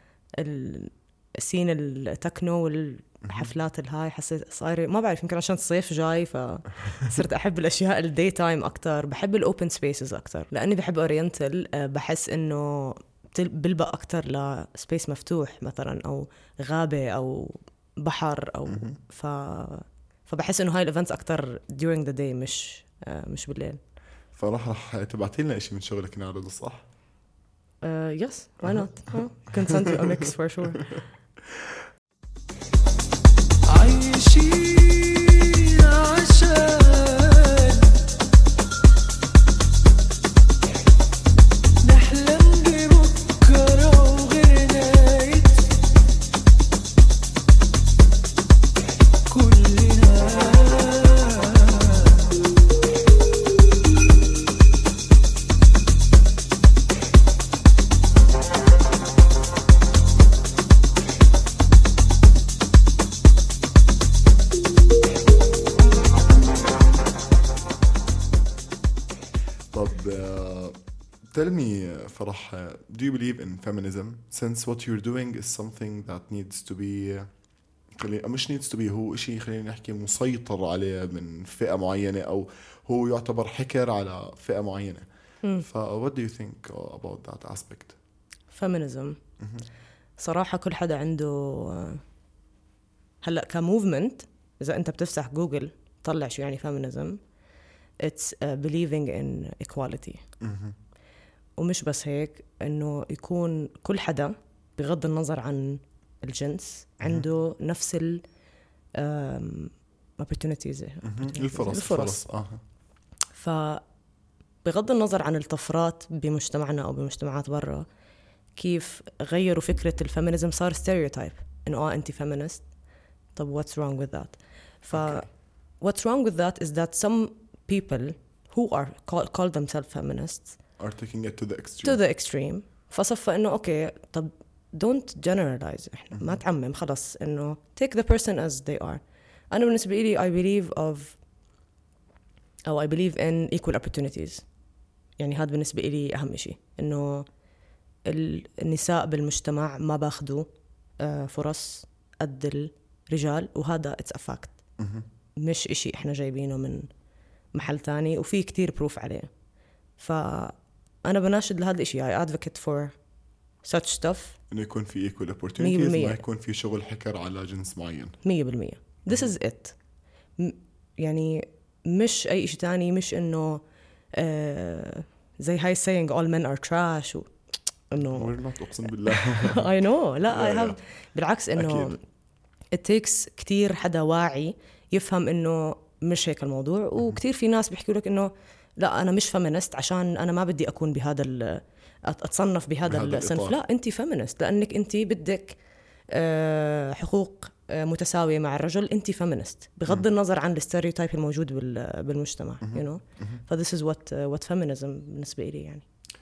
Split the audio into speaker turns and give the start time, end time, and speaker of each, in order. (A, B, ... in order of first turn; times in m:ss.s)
0:00.4-0:23.8 A
0:18.7-0:19.0 B
0:24.3-0:26.8 B
0:27.8-0:30.9 A
0:28.6-0:30.3 B
0:33.8-0:37.8 C
0:41.9-0:45.6 C
0:42.8-0:43.2 A
0:49.3-0:51.9 C
1:09.7-1:10.8 B
1:11.3-1:17.3 B
1:17.9-1:25.0 B
1:25.6-1:28.0 B
1:28.5-1:29.2 A
1:30.2-1:32.0 A
1:33.2-1:37.2 A
1:38.0-1:40.2 A
1:40.4-1:40.7 B
1:41.6-1:48.2 A
1:47.0-1:47.3 B
1:48.9-1:52.2 A
1:51.0-1:52.6 B
1:53.3-1:53.8 A
1:54.6-1:57.8 A
1:58.6-2:02.6 A
2:03.4-2:05.3 A
2:04.9-2:05.2 B
2:05.8-2:10.6 A
2:10.8-2:12.0 B
2:11.8-2:19.0 A
2:19.5-2:21.2 A
2:22.6-2:24.4 A
2:25.2-2:27.3 A
2:28.0-2:30.5 A
2:31.0-2:34.6 A
2:34.8-2:35.0 B
2:35.4-2:36.9 A
2:37.5-2:39.3 A
2:40.0-2:42.9 A
2:43.6-2:44.4 A
2:44.5-2:48.2 B
2:45.6-2:46.2 A
2:48.2-2:49.7 A
2:50.4-2:53.6 A
2:54.1-2:57.3 A
2:57.9-2:58.3 A
2:58.0-2:59.7 B
2:59.1-3:02.0 A
3:00.3-3:00.8 B
3:01.6-3:01.9 B
3:02.7-3:15.6 A
3:12.8-3:13.6 B
3:16.1-3:25.8 A
3:22.6-3:23.4 B